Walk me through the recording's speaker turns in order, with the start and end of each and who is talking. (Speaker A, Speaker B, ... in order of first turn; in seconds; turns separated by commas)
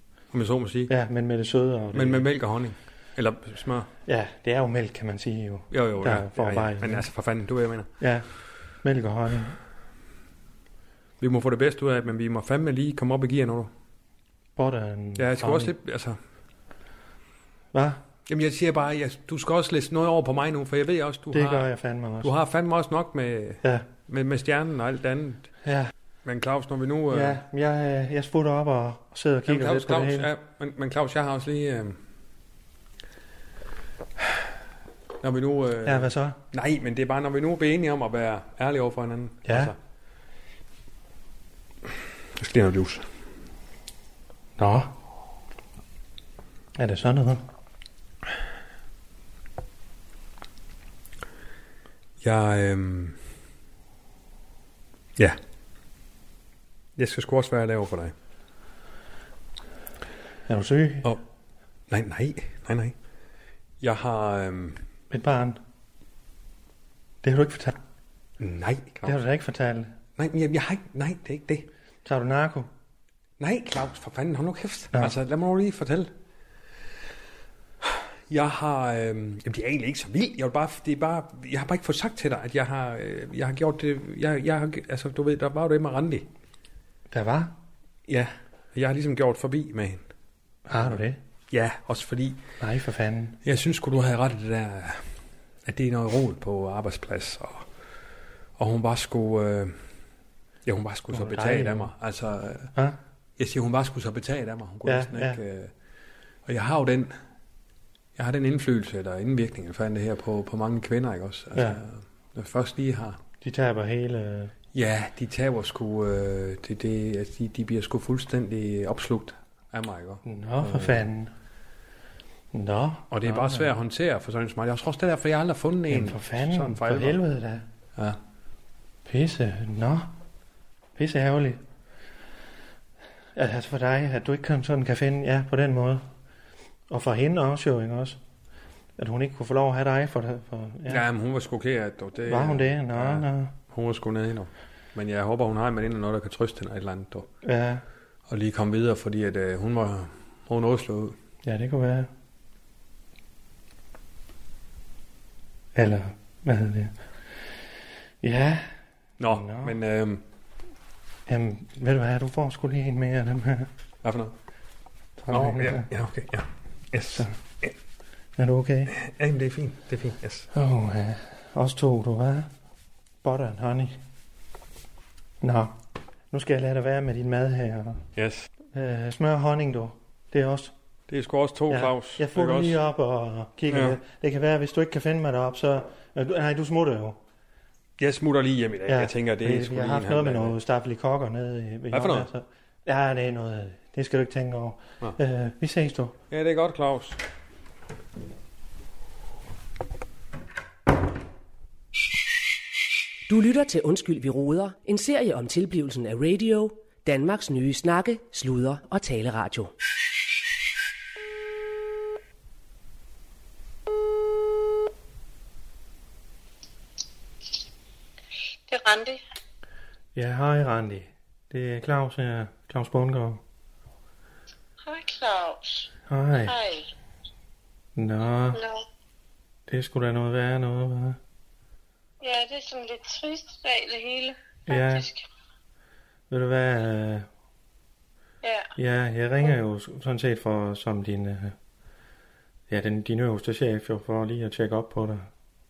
Speaker A: 0.3-0.9, Speaker B: 0.9-2.3, Speaker A: 1.9-3.9, Speaker B: 4.1-7.1, Speaker A: 5.7-7.9, Speaker B: 8.0-8.3, Speaker B: 8.8-9.6, Speaker A: 11.2-13.7, Speaker B: 14.6-15.7, Speaker A: 15.2-16.2, Speaker B: 17.7-18.0, Speaker A: 18.3-21.7, Speaker B: 21.3-22.3, Speaker A: 22.2-25.5, Speaker B: 25.6-25.9, Speaker A: 26.2-27.4, Speaker B: 27.1-30.3, Speaker A: 29.5-32.0, Speaker A: 35.2-39.8, Speaker B: 35.9-36.4, Speaker B: 39.5-39.7, Speaker A: 42.4-43.1, Speaker B: 44.6-44.9, Speaker B: 46.7-47.5, Speaker A: 52.2-53.2, Speaker A: 57.0-58.1, Speaker B: 60.5-61.1, Speaker A: 61.9-62.9, Speaker A: 63.8-64.8, Speaker B: 65.1-65.6, Speaker B: 67.2-67.8, Speaker A: 68.4-69.2, Speaker B: 69.0-69.9, Speaker A: 70.2-71.7, Speaker B: 72.0-72.7, Speaker A: 73.4-76.1, Speaker A: 77.8-86.3, Speaker B: 87.1-87.6, Speaker A: 88.1-90.1, Speaker B: 90.7-91.2, Speaker A: 90.7-92.4, Speaker B: 92.6-93.4, Speaker A: 93.4-95.1, Speaker A: 95.6-97.7, Speaker A: 98.6-99.8, Speaker A: 100.7-102.7, Speaker B: 101.1-101.9, Speaker A: 103.4-105.7, Speaker B: 104.8-105.4, Speaker A: 106.5-107.2, Speaker A: 108.2-113.2, Speaker B: 111.5-111.8, Speaker B: 113.4-114.5, Speaker A: 114.7-121.0, Speaker B: 120.2-121.3, Speaker B: 122.5-123.7, Speaker A: 123.1-127.2, Speaker B: 125.9-127.7, Speaker B: 129.1-130.1, Speaker B: 130.9-131.6, Speaker B: 133.3-136.1, Speaker B: 136.9-138.2, Speaker B: 139.0-141.1, Speaker A: 140.9-147.3, Speaker B: 142.2-143.5, Speaker B: 147.4-147.8, Speaker A: 148.3-151.2, Speaker B: 151.4-152.1, Speaker B: 155.7-156.9, Speaker B: 158.2-158.7, Speaker A: 159.2-160.2, Speaker B: 159.3-159.8, Speaker B: 161.3-163.7, Speaker A: 164.0-164.3, Speaker B: 165.2-165.9, Speaker A: 165.3-167.7, Speaker B: 168.4-168.9, Speaker A: 168.9-170.5, Speaker B: 170.5-172.5, Speaker B: 173.2-174.0, Speaker B: 175.4-175.8, Speaker B: 176.3-178.0, Speaker A: 178.1-178.5, Speaker B: 178.7-180.7, Speaker A: 181.1-182.8, Speaker B: 181.7-187.2, Speaker A: 183.7-184.0, Speaker A: 188.0-190.6, Speaker B: 188.9-196.2, Speaker A: 191.9-192.3, Speaker A: 196.3-197.2, Speaker C: 203.3-209.7, Speaker D: 218.7-219.2, Speaker B: 220.1-223.4, Speaker D: 224.8-226.9, Speaker B: 226.1-226.6, Speaker B: 227.9-228.6, Speaker D: 228.5-228.8, Speaker B: 229.7-231.2, Speaker D: 232.2-235.2, Speaker B: 234.7-235.1, Speaker B: 236.3-237.3, Speaker D: 238.4-238.7, Speaker B: 238.8-241.6, Speaker B: 242.7-245.3